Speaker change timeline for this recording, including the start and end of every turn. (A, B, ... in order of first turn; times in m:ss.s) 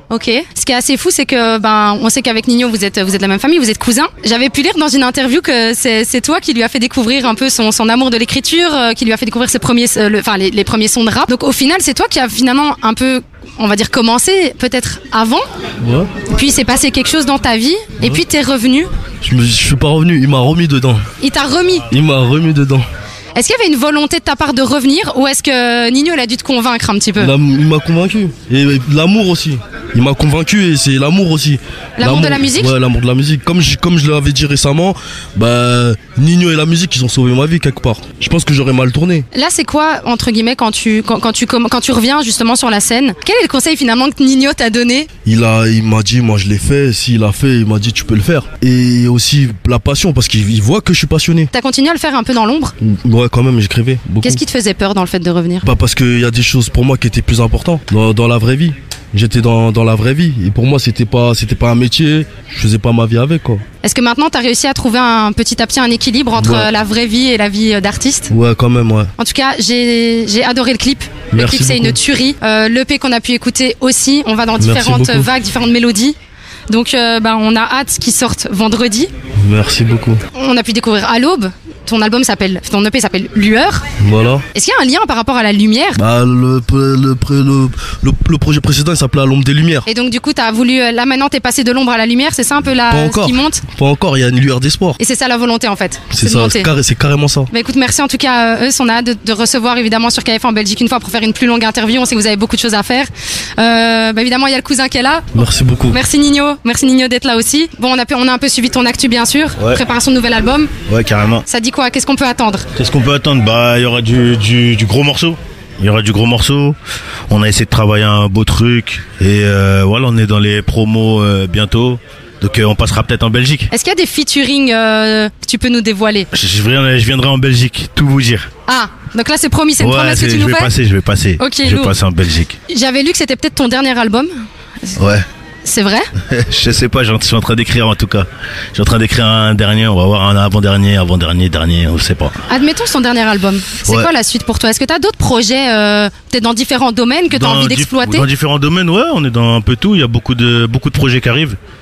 0:00.1-0:15.4 A
0:15.8-0:16.1 B
0:16.3-0:18.9 A
0:19.2-0:21.0 B
0:21.2-0:21.9 A
0:21.9-0:22.9 B
0:23.4-0:27.3 A
0:27.2-0:39.3 B
0:32.0-0:32.7 A
0:39.3-0:45.1 A
0:45.2-0:51.5 B
0:51.5-0:52.8 A
0:52.8-0:54.4 B
0:54.2-0:55.7 A
0:55.6-1:03.6 B
1:03.8-1:08.3 A
1:06.4-1:06.7 B
1:08.3-1:09.1 B
1:09.2-1:16.2 A
1:11.3-1:12.0 B
1:14.6-1:15.3 B
1:16.7-1:19.1 A
1:19.4-1:20.2 B
1:20.3-1:23.8 A
1:24.0-1:24.4 B
1:24.5-1:26.0 A
1:26.0-1:29.9 B
1:29.9-1:33.6 A
1:32.9-1:35.0 B
1:35.0-1:36.7 A
1:36.1-1:37.5 B
1:37.5-1:45.3 A
1:45.3-1:46.0 B
1:45.9-1:50.7 A
1:50.9-1:51.4 C
1:51.5-1:52.7 A
1:52.8-1:56.8 C
1:57.3-2:03.7 C
2:03.7-2:06.3 A
2:06.3-2:08.5 C
2:08.7-2:10.7 A
2:09.8-2:12.6 C
2:11.4-2:12.0 A
2:12.7-2:14.3 A
2:15.0-2:15.2 C
2:15.6-2:16.1 A
2:16.3-2:22.4 C
2:22.5-2:28.3 A
2:23.8-2:24.1 C
2:27.3-2:31.6 C